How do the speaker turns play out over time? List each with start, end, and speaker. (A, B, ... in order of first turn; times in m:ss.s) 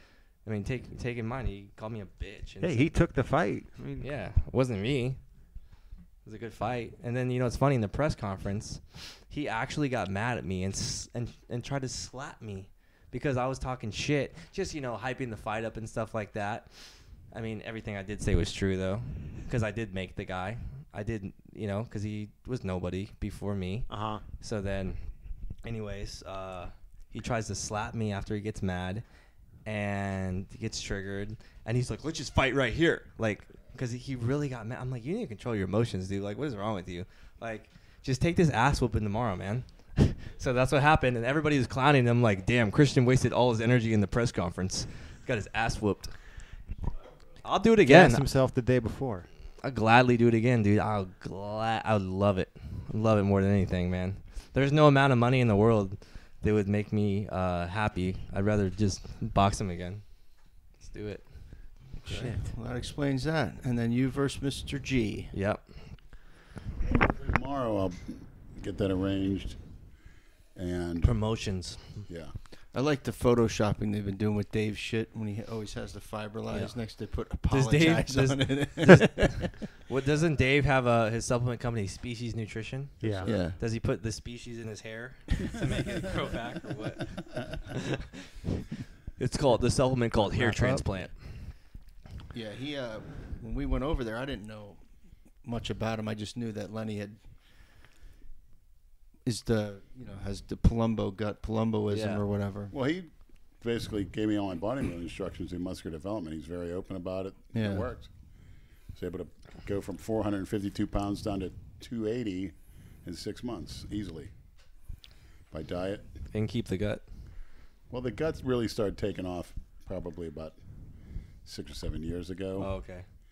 0:00.4-0:02.9 A
0:02.6-0:04.1 B
0:04.0-0:05.2 A
0:06.2-0:16.7 A
0:17.3-0:23.9 A
0:23.9-0:24.2 B
0:24.4-0:25.0 A
0:25.6-0:29.0 A
0:29.6-0:46.1 A
0:47.4-0:48.3 A
0:47.8-0:49.3 B
0:49.6-1:00.2 A
1:00.8-1:01.3 A
1:02.0-1:05.3 C
1:02.1-1:02.4 A
1:02.1-1:02.4 B
1:05.3-1:05.7 A
1:06.8-1:09.6 D
1:10.6-1:11.2 D
1:11.0-1:12.1 A
1:12.1-1:12.3 D
1:12.7-1:19.5 C
1:17.5-1:28.0 A
1:23.0-1:23.3 B
1:23.0-1:23.4 D
1:23.2-1:23.6 C
1:29.2-1:31.2 A
1:30.2-1:30.9 B
1:32.3-1:34.8 C
1:35.4-1:37.2 C
1:39.2-1:42.7 C
1:41.9-1:42.2 A
1:42.7-1:48.1 D
1:47.5-1:47.9 C
1:49.0-1:54.3 D
1:55.5-1:56.1 D
1:56.3-1:57.0 A
1:57.9-2:00.6 D
2:01.5-2:02.7 D
2:02.6-2:03.0 A